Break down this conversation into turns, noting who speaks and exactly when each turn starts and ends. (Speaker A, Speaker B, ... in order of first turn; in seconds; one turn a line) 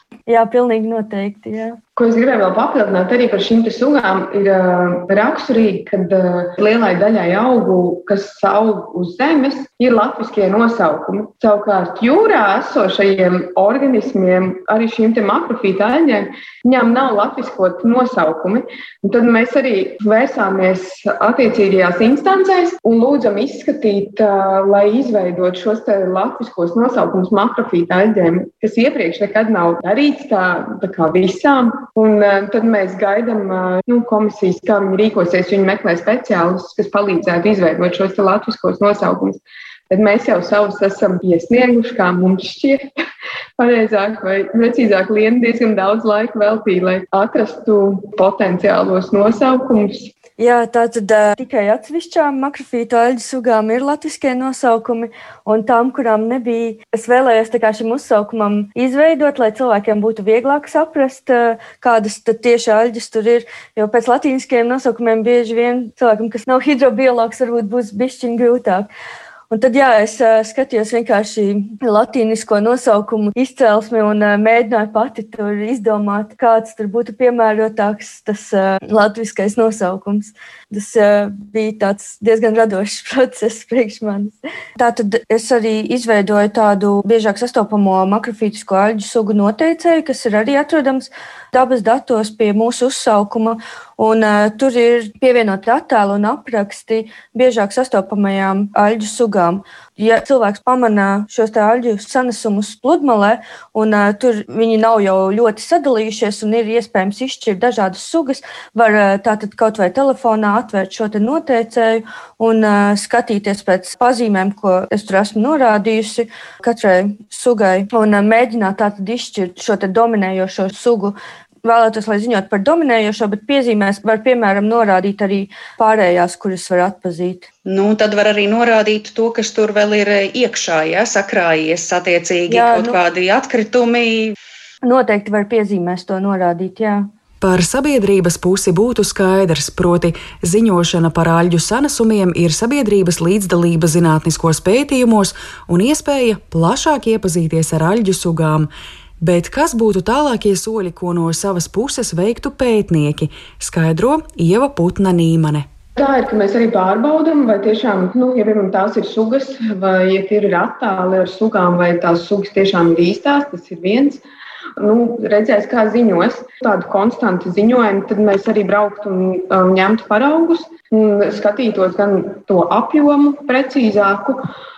Speaker A: 0.3-1.8
Speaker B: 2.0-42.9
Speaker B: 43.6-50.1
Speaker A: 50.4-68.9
Speaker A: 69.5-127.5
Speaker C: 127.7-134.3
Speaker A: 132.5-133.0
Speaker A: 134.8-137.1
Speaker D: 137.4-148.7
Speaker D: 149.2-155.7
Speaker B: 156.0-164.2
Speaker B: 164.8-174.4